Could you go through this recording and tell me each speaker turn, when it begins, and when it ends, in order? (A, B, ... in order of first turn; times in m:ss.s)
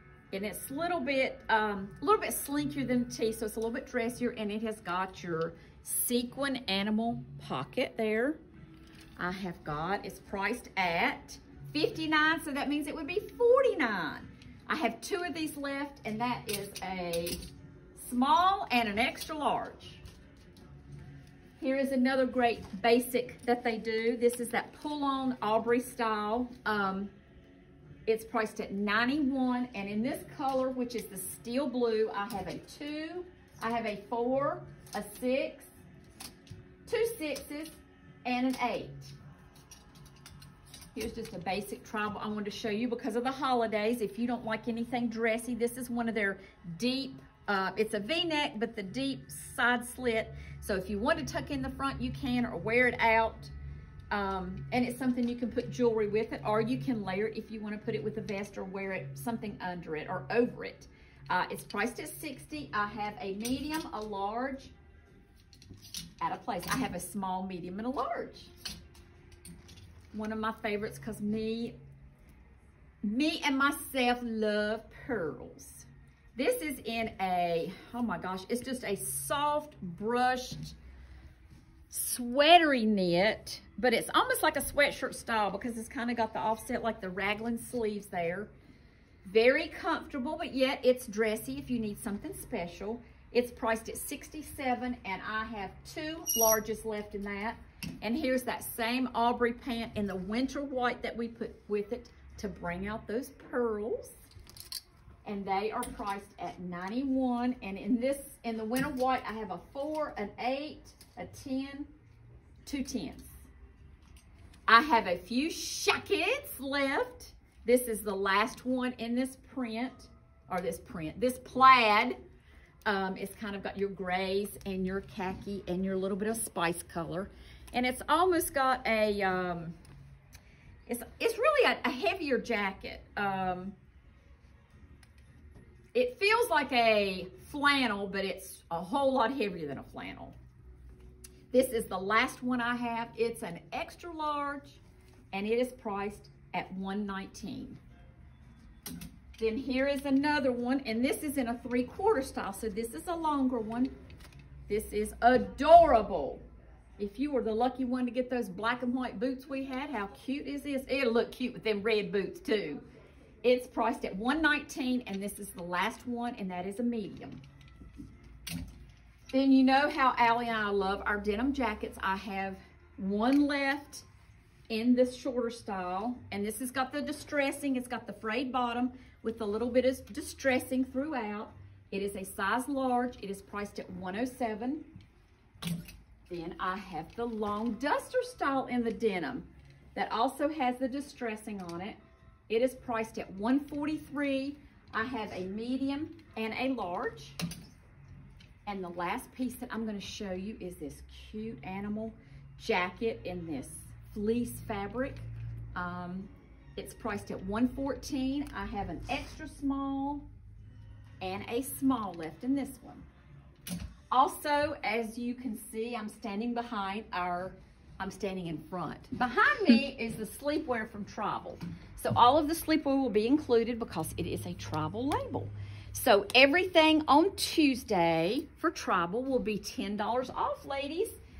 0:00.3-0:08.4 A
0:09.2-0:17.4 A
0:17.9-0:20.0 A
0:21.6-0:27.1 A
0:28.1-0:35.7 A
0:36.8-0:39.1 A
0:40.9-0:53.5 A
0:54.1-1:04.7 A
1:06.2-1:08.5 A
1:10.1-1:11.8 A
1:13.0-1:20.8 A
1:21.9-1:28.5 A
1:29.2-1:44.2 A
1:45.2-1:51.9 A
1:52.6-1:53.3 A
1:54.7-2:02.2 A
2:02.8-2:09.8 A
2:10.9-2:13.7 A
2:15.9-2:20.4 A
2:21.5-2:24.8 A
2:25.3-2:27.8 A
2:29.4-2:33.9 A
2:34.7-2:36.4 A
2:37.0-2:42.8 A
2:43.4-2:47.4 A
2:49.3-2:54.0 A
2:54.7-3:04.8 A
3:06.3-3:12.0 A
3:12.5-3:17.4 A
3:18.6-3:30.2 A
3:31.2-3:33.1 A
3:34.1-3:51.2 A